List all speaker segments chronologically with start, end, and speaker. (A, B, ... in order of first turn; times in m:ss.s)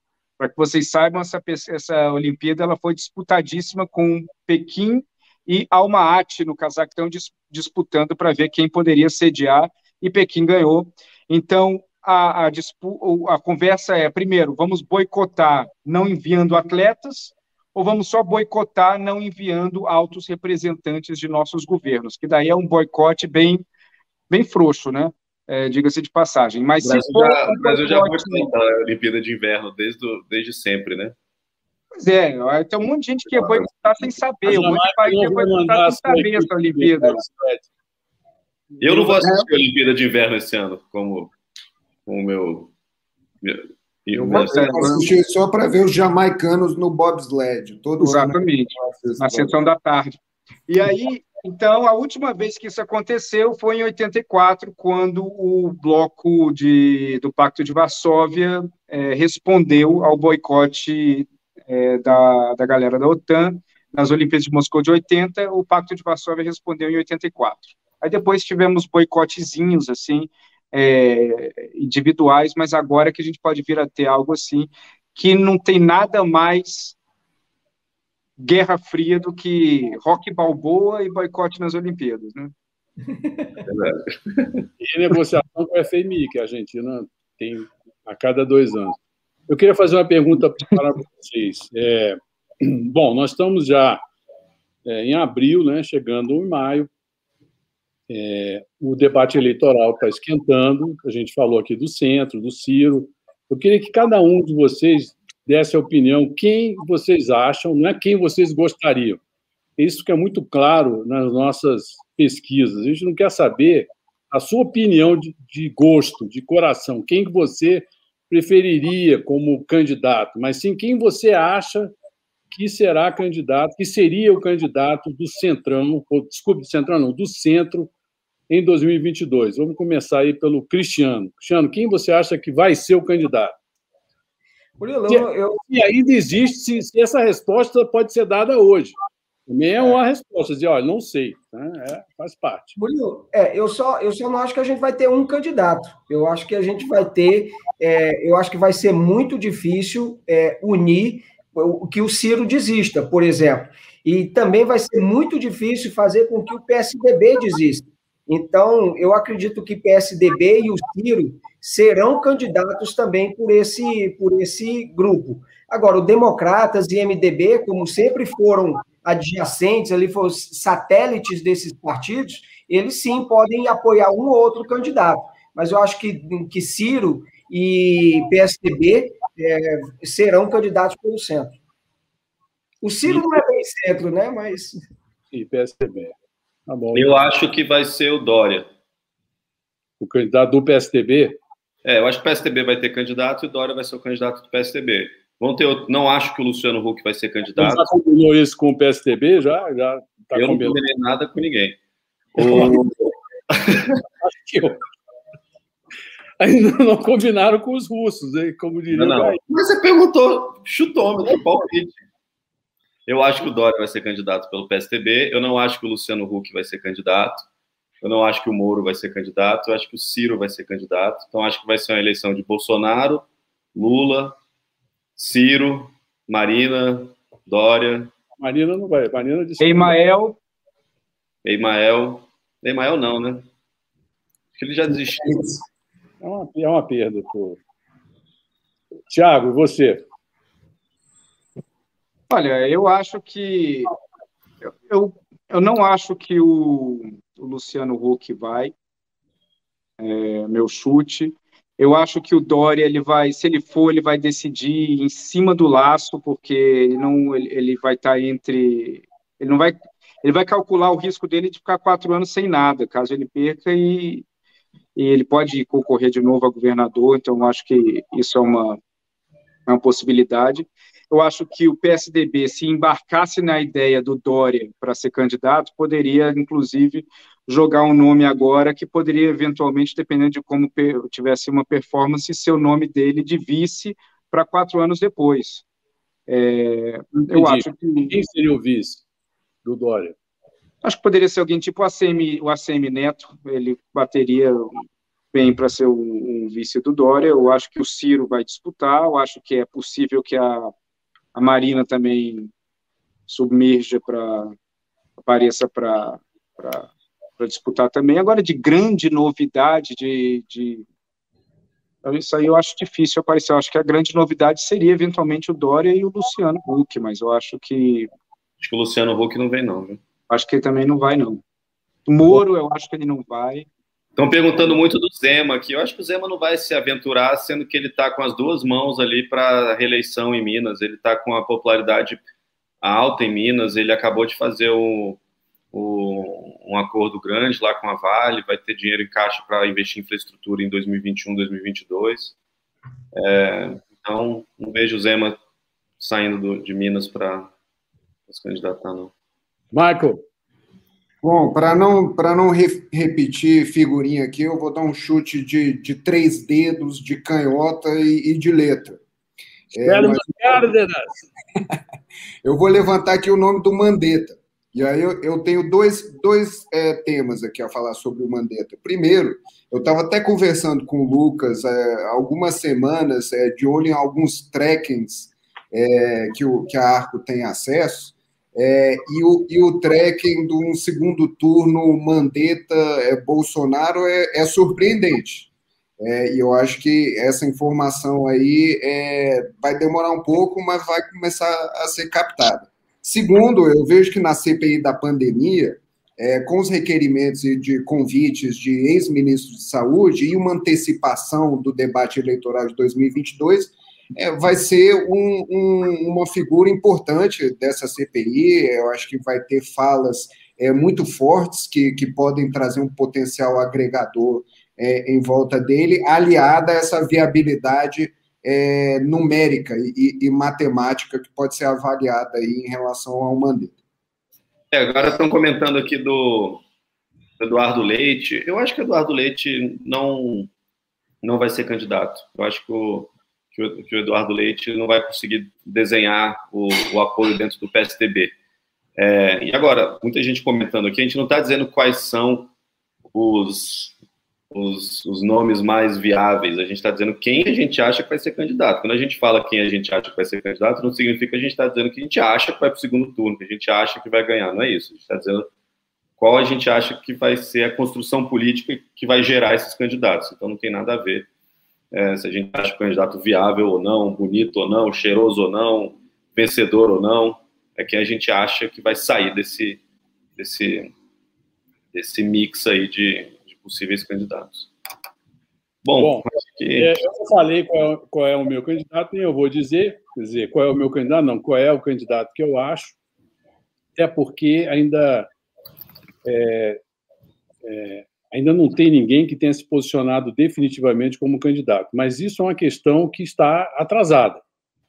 0:00.4-0:23.6 A
0:24.3-0:28.5 A
0:26.8-0:31.1 B
0:32.0-0:37.2 A
0:34.4-0:37.6 C
0:38.8-0:41.3 B
0:39.2-0:39.4 D
0:42.0-0:42.7 B
0:43.4-0:45.0 B
0:44.1-0:49.6 D
0:44.3-0:45.1 A
0:48.0-0:50.1 A
0:50.7-1:17.0 A
1:18.4-1:22.5 A
1:23.6-1:24.6 B
1:24.8-1:29.0 C
1:29.5-1:34.0 C
1:34.8-1:36.9 C
1:38.1-1:49.2 C
1:49.8-2:01.9 C
2:02.5-2:07.9 C
2:08.5-2:13.6 C
2:14.8-2:15.6 E
2:15.1-2:22.8 C
2:22.8-3:01.6 E
3:02.8-3:04.8 E
3:03.0-3:03.4 C
3:05.3-3:06.1 C
3:06.7-3:07.1 C
3:06.9-3:08.6 B
3:10.0-3:11.4 C
3:11.8-3:17.9 B
3:17.6-3:20.8 C
3:20.3-3:21.8 B
3:22.3-3:23.0 B
3:22.4-3:22.8 C
3:23.5-3:24.0 B
3:24.2-3:24.8 C
3:26.4-3:29.4 C
3:28.9-3:32.0 B
3:33.1-3:37.4 B
3:38.0-3:44.4 B
3:45.2-3:48.1 B
3:48.4-3:50.0 C
3:49.6-3:50.4 A
3:51.4-3:53.4 B
3:54.6-3:55.5 B
3:55.2-3:55.6 D
3:56.2-3:57.6 C
3:59.1-4:00.0 C
4:02.3-4:03.9 A
4:04.6-4:08.7 A
4:10.0-4:24.2 A
4:25.0-4:28.8 A
4:29.7-4:45.6 A
4:46.3-4:48.1 A
4:47.2-4:49.0 C
4:49.6-4:50.1 C
4:50.8-4:54.8 A
4:55.3-5:00.7 A
5:01.3-5:02.5 A
5:03.3-5:04.5 A
5:05.2-5:10.8 A
5:12.0-5:18.1 A
5:18.6-5:20.0 B
5:20.3-5:21.4 A
5:22.0-5:23.7 A
5:24.2-5:32.2 B
5:32.8-5:35.2 B
5:35.7-5:42.3 B
5:43.1-5:45.4 B
5:46.0-5:47.5 B
5:48.3-5:49.1 B
5:49.7-5:50.2 C
5:51.2-5:59.0 D
5:59.7-6:00.7 D
5:59.8-6:01.2 C
6:02.4-6:25.5 D
6:26.0-7:03.8 D
7:04.7-7:06.6 B
7:07.4-7:10.5 B
7:11.2-7:18.3 B
7:19.0-7:22.5 B
7:23.1-7:24.0 B
7:24.5-7:35.5 B
7:36.2-7:41.3 B
7:41.9-7:49.8 B
7:50.4-7:50.9 B
7:51.9-7:54.7 B
7:55.8-7:57.0 B
7:56.0-8:03.0 C
8:04.0-8:05.3 C
8:06.2-8:06.8 C
8:07.6-8:14.4 C